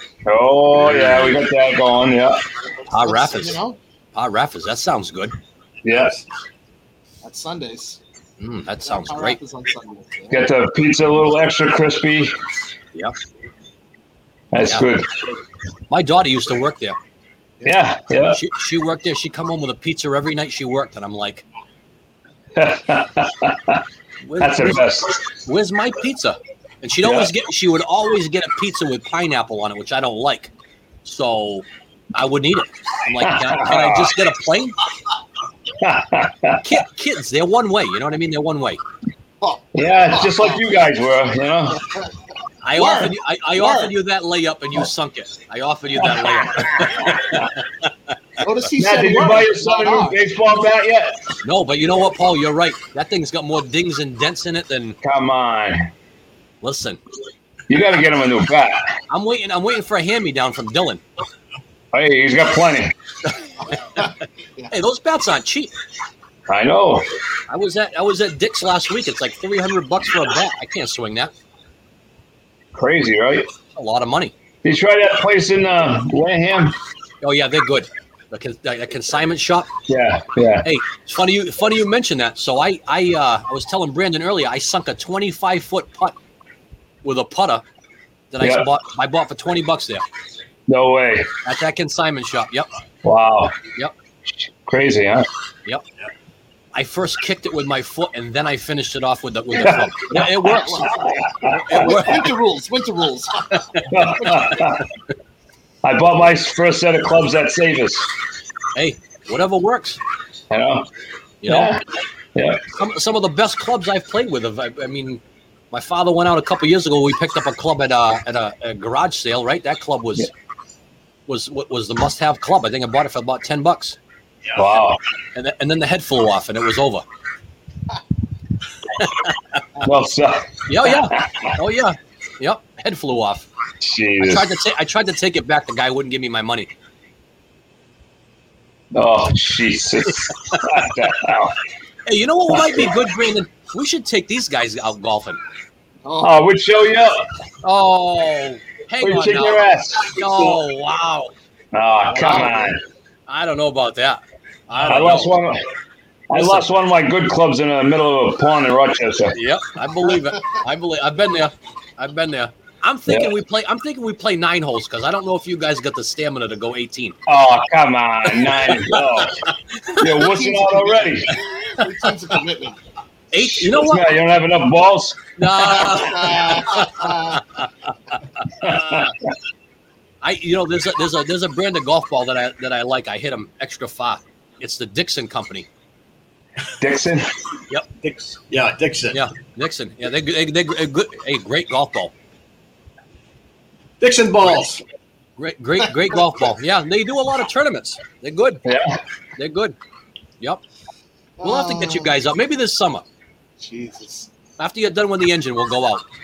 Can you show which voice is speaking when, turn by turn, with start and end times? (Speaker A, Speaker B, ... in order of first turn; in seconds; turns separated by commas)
Speaker A: 0.2-2.5, Speaker B: 0.8-1.4, Speaker C: 2.9-3.8, Speaker B: 2.9-3.6, Speaker B: 4.1-5.4, Speaker A: 5.8-6.2, Speaker C: 7.2-8.0, Speaker B: 8.4-9.4, Speaker C: 8.8-10.4, Speaker A: 10.3-12.4, Speaker A: 14.5-15.1, Speaker B: 15.9-17.0, Speaker A: 17.6-18.4, Speaker B: 18.3-21.4, Speaker A: 22.6-23.8, Speaker B: 24.2-30.5, Speaker A: 24.4-25.2, Speaker A: 27.0-27.3, Speaker B: 31.0-34.8, Speaker A: 33.2-34.1, Speaker A: 35.8-36.6, Speaker B: 36.6-38.8, Speaker C: 39.4-40.6, Speaker A: 39.7-41.8, Speaker B: 42.6-47.9, Speaker C: 42.8-43.9, Speaker A: 46.4-47.5, Speaker C: 48.4-50.2, Speaker A: 48.8-51.2, Speaker B: 51.4-55.0, Speaker A: 55.0-55.9, Speaker B: 56.6-57.0, Speaker A: 57.7-59.0, Speaker B: 59.1-61.0, Speaker A: 61.9-62.9, Speaker B: 63.7-64.1, Speaker C: 63.9-64.7, Speaker B: 64.7-65.7, Speaker A: 66.5-67.1, Speaker B: 67.5-71.3, Speaker A: 72.7-73.5, Speaker B: 73.7-74.3, Speaker A: 74.6-76.8, Speaker B: 77.2-79.7, Speaker A: 79.9-80.7, Speaker B: 80.6-86.2, Speaker B: 87.0-87.6, Speaker B: 88.3-90.0, Speaker A: 88.4-88.7, Speaker A: 90.7-91.3, Speaker B: 91.5-92.7, Speaker A: 93.0-93.6, Speaker A: 94.3-95.3, Speaker B: 96.7-100.9, Speaker A: 99.5-99.9, Speaker C: 100.1-104.6, Speaker A: 100.9-102.0, Speaker B: 101.5-102.3, Speaker A: 103.9-104.8, Speaker A: 105.8-108.1, Speaker B: 108.7-110.0, Speaker A: 110.5-110.9, Speaker B: 111.4-111.8, Speaker A: 111.5-111.8, Speaker A: 112.3-112.6, Speaker B: 112.7-120.3, Speaker B: 121.3-124.0, Speaker D: 124.5-124.8, Speaker A: 124.5-125.0, Speaker B: 125.3-127.0, Speaker B: 128.9-129.6, Speaker A: 129.8-131.5, Speaker B: 130.7-133.5, Speaker A: 133.8-134.5, Speaker B: 134.2-136.7, Speaker A: 138.9-141.6, Speaker B: 142.1-145.4, Speaker A: 142.5-142.9, Speaker C: 146.0-146.3, Speaker A: 146.2-147.3, Speaker B: 147.6-151.3, Speaker A: 149.0-150.1, Speaker D: 150.2-150.6, Speaker A: 151.7-152.8, Speaker B: 152.1-152.7, Speaker C: 152.2-152.7, Speaker B: 153.3-155.4, Speaker A: 154.8-155.6, Speaker A: 156.3-159.4, Speaker B: 156.3-156.7, Speaker B: 159.3-167.2, Speaker A: 167.3-171.3, Speaker B: 168.5-170.0, Speaker C: 170.1-172.8, Speaker B: 173.3-174.2, Speaker A: 173.4-175.9, Speaker B: 175.4-177.7, Speaker C: 175.6-177.4, Speaker B: 178.4-179.1, Speaker A: 178.6-179.1, Speaker B: 180.2-185.7, Speaker A: 186.8-187.3, Speaker D: 188.0-189.2, Speaker B: 189.1-192.1, Speaker D: 194.0-194.8, Speaker B: 195.4-198.6, Speaker A: 198.6-199.0, Speaker B: 199.4-199.8, Speaker C: 201.4-202.2, Speaker B: 201.4-203.1, Speaker C: 203.6-204.3, Speaker B: 204.6-206.0